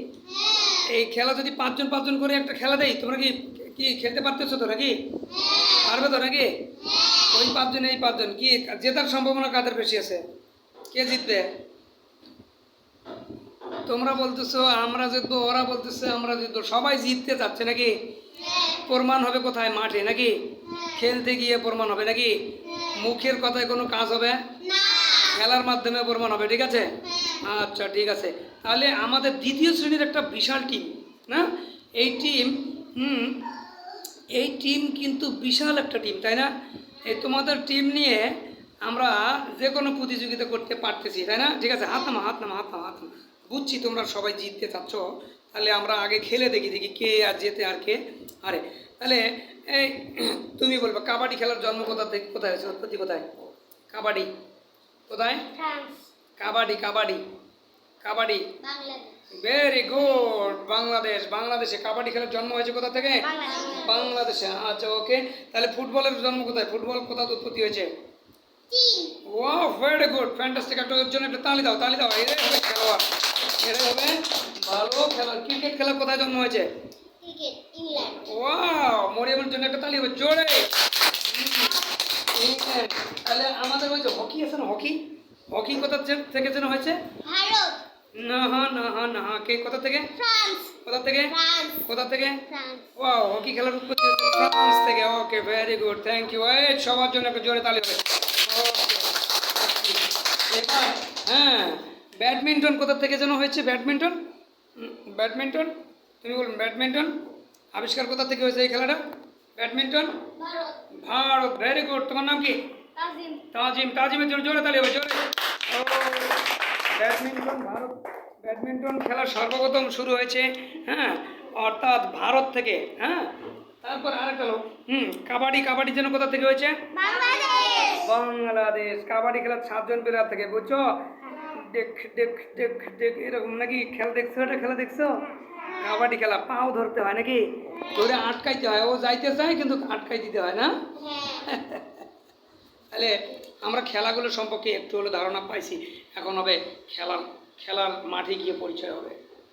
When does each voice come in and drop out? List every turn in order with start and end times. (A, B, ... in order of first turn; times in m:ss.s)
0:00.3-0:00.9 A
0:00.8-0:05.0 B
0:05.3-0:05.9 A
0:05.8-0:06.5 B
0:06.8-0:07.4 A
0:07.3-0:10.2 B
0:10.9-0:11.5 B
0:13.8-0:17.9 B
0:18.4-0:18.8 A
0:18.9-0:20.4 B
0:20.7-0:21.0 A
0:21.0-0:22.4 B
0:22.7-0:23.0 A
0:22.9-0:24.4 B
0:24.6-0:25.4 A
0:25.3-0:31.5 B
0:27.0-0:27.4 A
0:32.0-0:33.5 B
0:34.3-0:36.5 B
0:37.0-0:53.3 B
0:53.9-0:54.3 B
0:55.1-0:55.5 B
0:55.6-0:56.0 A
0:56.4-0:57.2 B
0:58.0-0:58.5 B
0:58.6-0:59.1 A
0:59.3-1:07.9 B
1:03.2-1:04.1 A
1:08.7-1:09.2 A
1:09.2-1:13.0 B
1:13.6-1:16.7 B
1:17.2-1:18.4 A
1:18.3-1:20.7 B
1:21.2-1:25.0 B
1:25.5-1:27.0 B
1:27.2-1:27.8 A
1:28.2-1:30.2 B
1:30.2-1:31.8 A
1:30.8-1:32.4 B
1:32.5-1:32.9 A
1:33.0-1:44.2 B
1:44.8-1:47.2 B
1:47.7-1:49.0 B
1:49.6-1:50.2 B
1:50.4-1:50.8 A
1:51.0-1:52.6 B
1:53.0-1:53.4 A
1:53.5-2:06.8 B
2:06.9-2:08.1 A
2:08.0-2:15.2 B
2:15.8-2:20.7 B
2:21.0-2:21.5 A
2:21.5-2:22.0 B
2:22.9-2:29.2 B